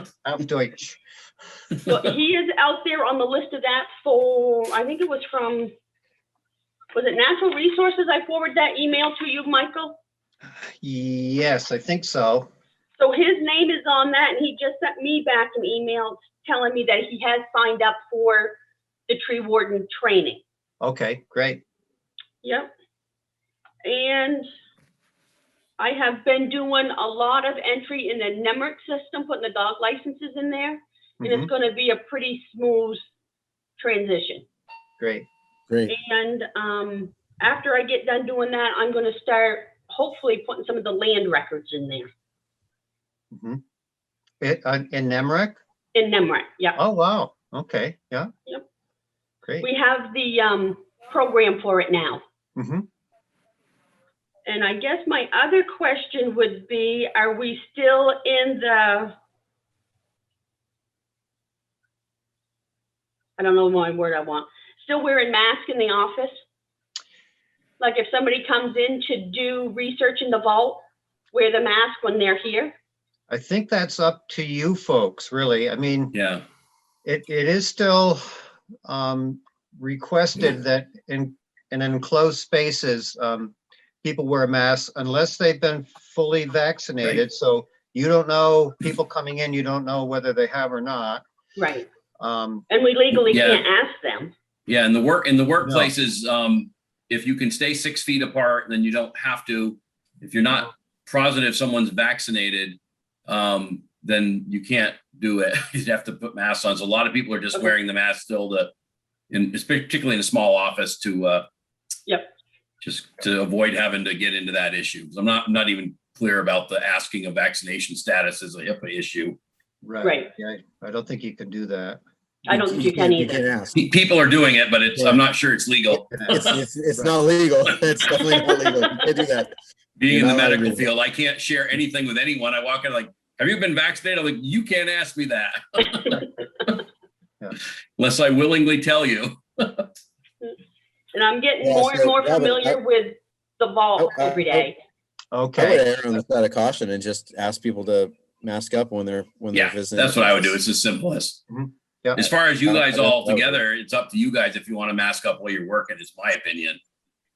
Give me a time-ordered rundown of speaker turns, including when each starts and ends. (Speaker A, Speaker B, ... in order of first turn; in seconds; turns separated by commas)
Speaker A: 0.2-1.0, Speaker B: 1.9-5.7, Speaker B: 6.9-10.0, Speaker A: 10.8-12.5, Speaker B: 13.0-18.6, Speaker B: 19.1-20.4, Speaker A: 20.8-21.6, Speaker B: 22.4-22.7, Speaker B: 23.8-24.5, Speaker B: 25.8-33.0, Speaker A: 31.2-31.5, Speaker B: 33.8-34.5, Speaker A: 35.0-35.3, Speaker C: 35.7-35.9, Speaker B: 35.9-42.1, Speaker A: 43.3-43.6, Speaker A: 44.4-45.6, Speaker B: 45.9-46.8, Speaker A: 46.8-48.3, Speaker B: 49.6-52.2, Speaker A: 52.6-52.8, Speaker B: 54.5-59.1, Speaker B: 63.4-66.3, Speaker B: 67.8-72.8, Speaker A: 73.3-76.1, Speaker D: 76.1-76.4, Speaker A: 77.0-78.2, Speaker A: 78.9-91.2, Speaker B: 91.6-91.9, Speaker A: 92.2-92.6, Speaker B: 92.7-94.3, Speaker D: 93.3-93.7, Speaker D: 94.7-108.7, Speaker A: 95.6-95.9, Speaker D: 109.3-111.5, Speaker D: 112.8-119.4, Speaker A: 119.8-122.0, Speaker B: 120.0-120.3, Speaker B: 122.5-123.4, Speaker C: 122.5-123.8, Speaker D: 123.8-126.4, Speaker C: 125.0-125.2, Speaker A: 125.9-127.1, Speaker C: 126.3-129.5, Speaker D: 130.0-136.8, Speaker C: 130.1-130.9, Speaker D: 138.0-139.9, Speaker B: 141.1-144.8, Speaker C: 141.6-142.8, Speaker C: 144.0-144.7, Speaker A: 145.3-145.8, Speaker C: 145.6-150.6, Speaker D: 149.5-151.4, Speaker A: 151.5-152.2, Speaker D: 152.2-156.8, Speaker C: 152.7-153.6